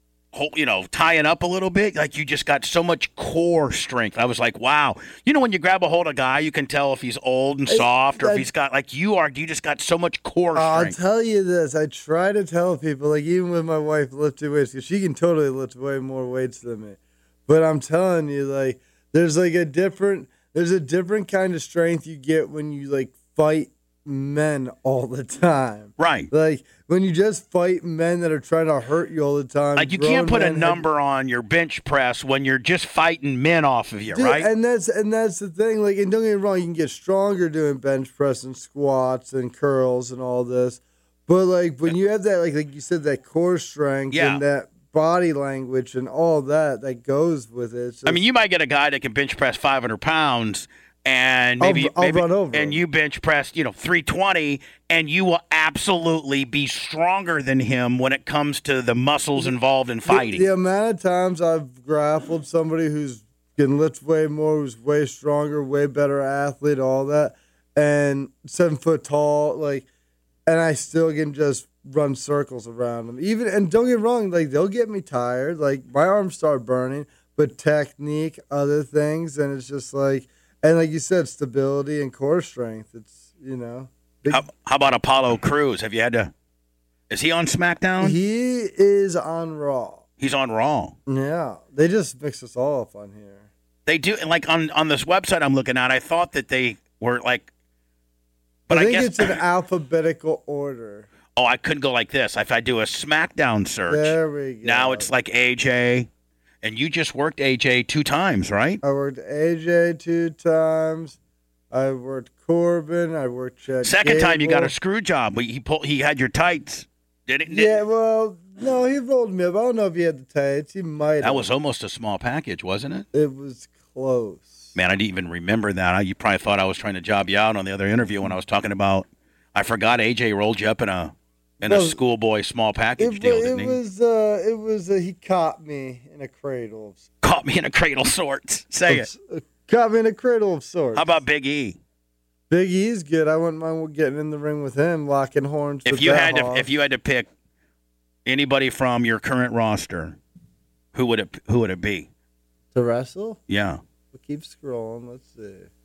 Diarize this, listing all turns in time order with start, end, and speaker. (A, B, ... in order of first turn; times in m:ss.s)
0:00.3-0:11.0 A
0:07.7-0:08.5 B
0:10.6-0:30.8 B
0:26.0-0:26.3 A
0:29.8-0:34.5 A
0:34.1-0:48.2 B
0:44.1-0:44.4 A
0:48.1-1:00.5 A
0:51.6-0:52.8 B
1:00.1-1:09.9 B
1:10.5-1:24.4 B
1:24.3-1:26.3 A
1:27.1-1:28.2 A
1:28.0-1:30.0 B
1:30.2-1:31.0 A
1:31.1-1:33.5 B
1:33.9-1:37.5 A
1:38.7-1:39.4 A
1:38.7-1:41.1 B
1:41.4-1:46.1 A
1:43.9-1:45.1 B
1:46.6-1:48.8 A
1:48.8-1:51.2 B
1:51.7-1:54.7 B
1:53.8-1:57.8 A
1:57.5-2:01.5 B
2:01.2-2:03.1 A
2:03.1-2:04.7 B
2:04.8-2:13.8 A
2:11.6-2:12.0 B
2:13.0-2:17.0 B
2:17.2-2:19.1 A
2:18.9-2:21.2 B
2:21.0-2:21.8 A
2:22.5-2:26.7 B
2:25.9-2:27.3 A
2:28.3-2:30.2 A
2:30.9-2:32.1 A
2:32.7-2:33.4 B
2:33.5-2:33.8 A
2:34.1-2:35.7 B